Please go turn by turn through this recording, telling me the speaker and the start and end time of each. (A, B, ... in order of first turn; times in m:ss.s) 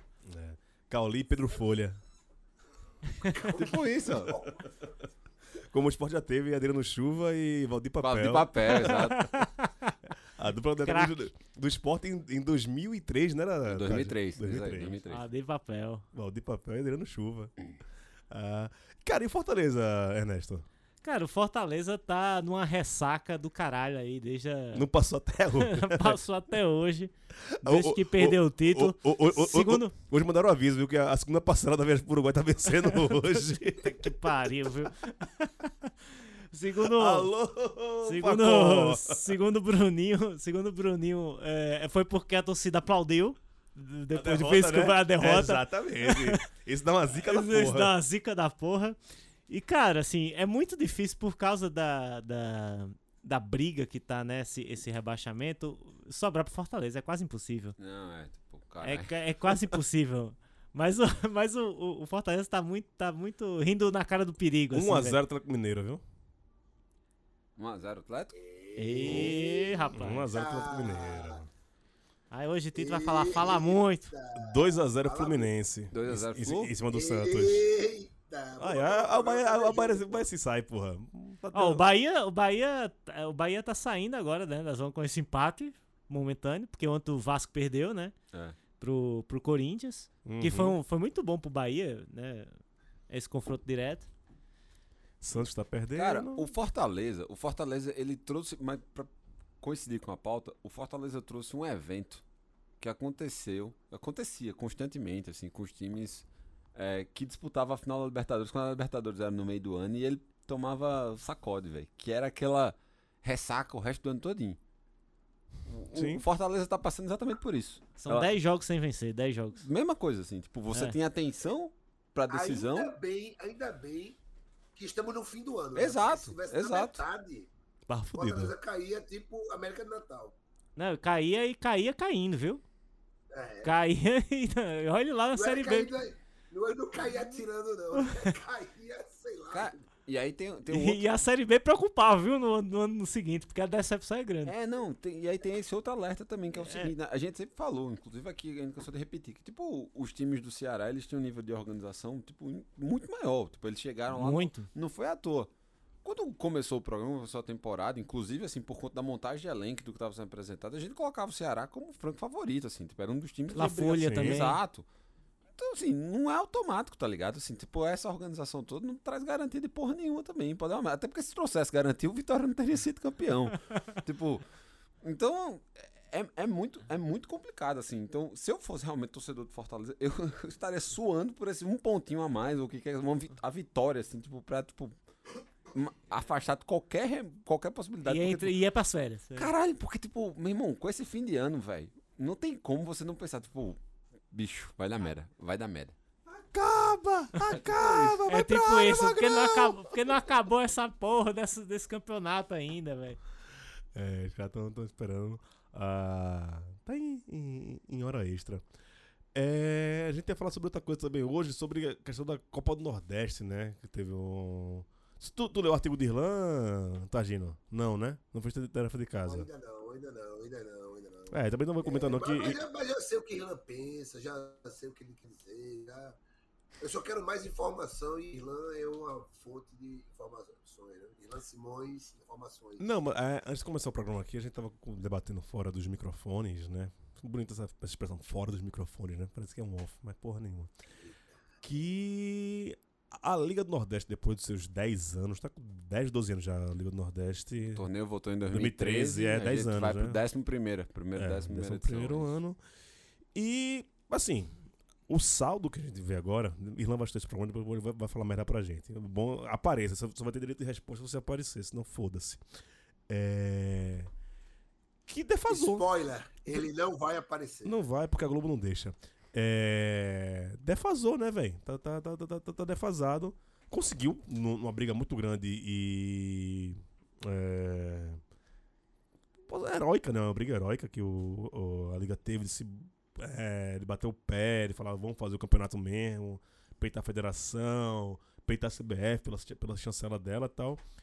0:00.3-0:02.0 A
0:03.2-0:04.6 B
0:03.6-0:04.4 C
0:05.7-0:09.3 A
0:08.0-0:09.3 C
0:08.9-0:09.9 D
0:10.4-0:15.0 A
0:10.8-0:11.2 D
0:13.7-0:15.3 C
0:15.1-0:16.1 D
0:16.1-0:17.5 A
0:18.3-0:20.7 A
0:21.0-0:24.9 D
0:24.7-0:26.2 A
0:25.6-0:29.9 D
0:27.5-0:34.7 A
0:32.8-0:35.5 D
0:36.5-0:37.3 D
0:36.8-0:39.3 A
0:38.0-0:46.4 D
0:44.1-0:48.0 A
0:47.1-0:49.0 D
0:49.5-0:57.8 D
0:57.8-0:59.5 C
0:58.8-1:05.2 D
1:04.7-1:06.0 A
1:07.6-1:08.3 C
1:08.3-1:11.4 B
1:08.8-1:10.3 D
1:09.9-1:11.5 A
1:12.3-1:14.1 D
1:12.8-1:15.5 B
1:14.4-1:17.6 A
1:15.9-1:16.7 C
1:16.9-1:20.3 B
1:18.6-1:21.9 A
1:21.5-1:28.1 D
1:28.3-1:28.6 C
1:28.8-1:32.6 D
1:30.2-1:30.8 A
1:33.1-1:34.1 D
1:35.2-1:36.5 A
1:36.0-1:39.1 C
1:39.6-1:42.2 C
1:42.8-1:54.6 C
1:55.7-1:58.3 C
1:55.9-1:56.2 A
1:58.0-1:59.6 D
1:59.6-2:02.9 C
2:02.3-2:04.2 B
2:04.7-2:07.5 B
2:05.8-2:07.0 C
2:07.9-2:08.6 A
2:08.2-2:10.4 B
2:10.8-2:12.6 D
2:13.3-2:13.7 B
2:13.6-2:15.9 D
2:15.3-2:19.8 B
2:19.5-2:21.0 C
2:20.7-2:24.5 D
2:24.4-2:35.5 C
2:26.6-2:26.9 D
2:34.1-2:34.7 D
2:36.0-2:44.9 C
2:43.5-2:44.6 D
2:44.0-2:44.4 A
2:45.6-2:54.5 C
2:55.0-3:05.0 C
3:05.7-3:08.6 C
3:08.0-3:09.5 D
3:09.4-3:13.8 C
3:14.3-3:16.0 C
3:16.5-3:20.1 A
3:17.5-3:18.2 C
3:17.7-3:18.1 B
3:18.3-3:23.2 D
3:23.9-3:28.6 A
3:29.3-3:39.5 A
3:39.2-3:46.2 B
3:41.3-3:42.6 A
3:46.8-3:52.8 B
3:52.8-4:00.7 A
4:01.6-4:07.8 A
4:07.7-4:12.3 C
4:08.5-4:10.2 A
4:11.2-4:12.6 A
4:13.4-4:14.6 A
4:15.1-4:22.4 A
4:23.1-4:24.1 A
4:25.1-4:25.9 A
4:25.5-4:27.8 B
4:27.6-4:38.2 A
4:39.5-4:50.8 A